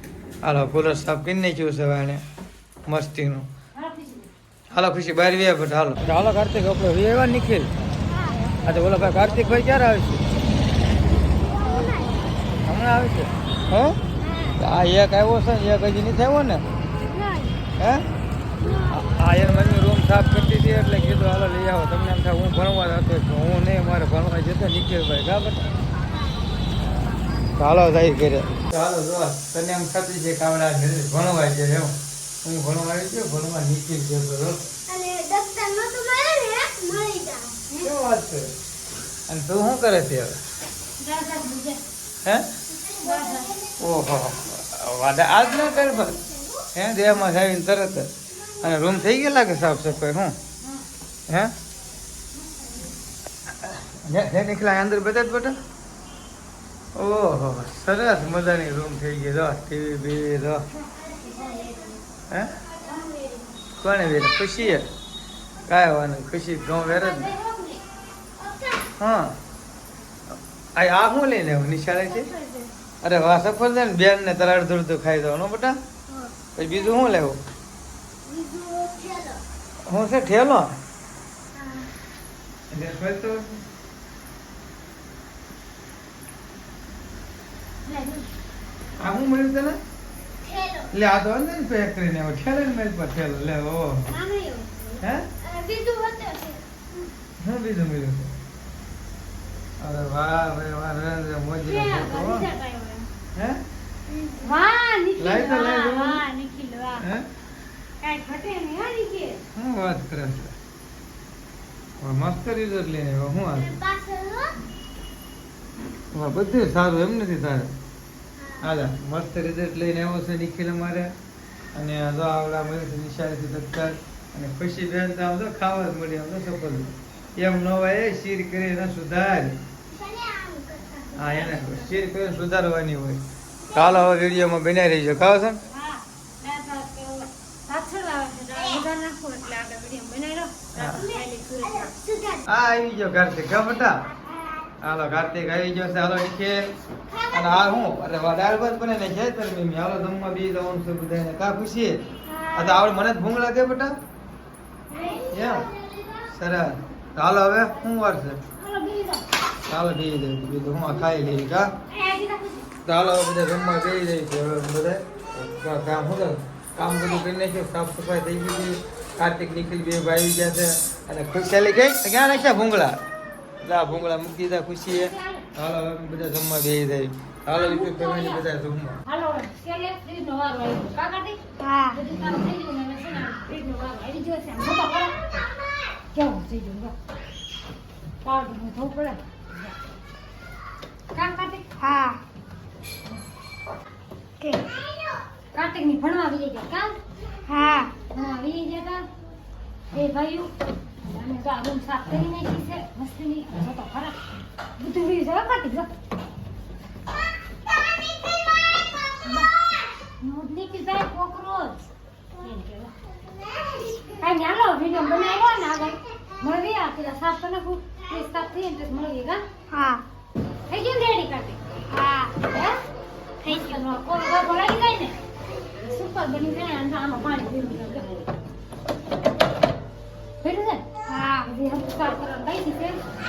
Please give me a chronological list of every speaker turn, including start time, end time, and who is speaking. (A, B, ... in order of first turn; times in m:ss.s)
0:00.4-0:02.2 A
0:02.8-0:03.5 A
0:03.7-0:04.3 B
0:04.7-0:07.9 A
0:08.6-0:10.3 A
0:11.4-0:12.2 C
0:12.6-0:14.0 A
0:14.5-0:16.7 A
0:17.1-0:17.6 B
0:17.8-0:18.0 A
0:18.9-0:25.7 A
0:27.6-0:34.7 A
0:34.9-0:37.6 C
0:37.8-0:38.5 A
0:39.3-0:40.4 A
0:41.0-0:41.8 B
0:42.2-0:42.5 A
0:42.8-0:43.7 C
0:42.9-0:43.6 B
0:43.8-0:50.4 A
0:50.6-0:50.9 B
0:51.3-0:51.5 A
0:52.3-0:52.9 B
0:53.6-0:55.6 A
0:56.9-1:00.6 A
1:00.7-1:02.0 B
1:02.3-1:02.6 A
1:02.8-1:03.5 B
1:03.8-1:04.9 A
1:05.6-1:07.3 A
1:06.8-1:07.8 B
1:08.4-1:08.9 C
1:09.0-1:09.4 A
1:10.7-1:12.3 A
1:12.0-1:12.7 B
1:13.0-1:15.8 A
1:16.6-1:17.4 A
1:18.2-1:19.4 C
1:19.8-1:20.8 A
1:22.7-1:23.6 A
1:27.8-1:28.3 B
1:29.0-1:29.8 A
1:30.4-1:30.9 C
1:30.9-1:34.1 A
1:34.1-1:35.0 B
1:35.0-1:35.3 A
1:35.4-1:36.8 C
1:37.4-1:38.3 A
1:39.8-1:42.5 A
1:41.6-1:43.1 B
1:43.4-1:43.6 A
1:44.1-1:44.5 C
1:44.4-1:47.1 B
1:45.2-1:46.2 A
1:47.0-1:47.2 A
1:48.0-1:49.4 B
1:49.5-1:50.6 A
1:52.0-1:53.8 A
1:53.7-1:54.6 C
1:56.1-1:57.8 A
1:58.6-2:01.1 A
2:01.7-2:09.6 A
2:09.9-2:11.2 C
2:11.1-2:15.6 A
2:11.3-2:12.0 B
2:15.7-2:21.9 B
2:20.7-2:21.1 A
2:21.8-2:22.4 C
2:22.4-2:24.1 A
2:24.8-2:26.7 A
2:27.3-2:34.0 A
2:34.9-2:35.2 B
2:34.9-2:36.2 C
2:35.3-2:35.7 A
2:36.3-2:38.4 A
2:38.6-2:39.2 B
2:39.7-2:41.7 A
2:41.9-2:42.7 B
2:42.8-2:53.0 A
2:53.6-2:59.0 A
2:55.0-2:55.4 B
2:57.5-2:58.4 B
2:59.0-3:05.4 B
3:01.6-3:02.0 C
3:06.1-3:06.9 B
3:08.2-3:09.8 B
3:11.1-3:11.6 B
3:11.8-3:12.2 C
3:14.4-3:15.2 C
3:15.5-3:17.0 B
3:17.4-3:17.9 C
3:18.1-3:19.0 B
3:19.9-3:20.5 B
3:21.0-3:24.2 B
3:24.8-3:25.9 B
3:29.2-3:29.5 B
3:30.2-3:32.9 B
3:33.4-3:34.2 C
3:34.2-3:39.4 B
3:39.7-3:40.0 C
3:40.7-3:41.6 B
3:41.9-3:42.4 C
3:42.4-3:42.8 B
3:43.4-3:43.8 C
3:43.4-3:45.2 B
3:45.8-3:48.3 B
3:50.4-3:50.9 B
3:51.1-3:51.5 C
3:51.4-3:53.0 B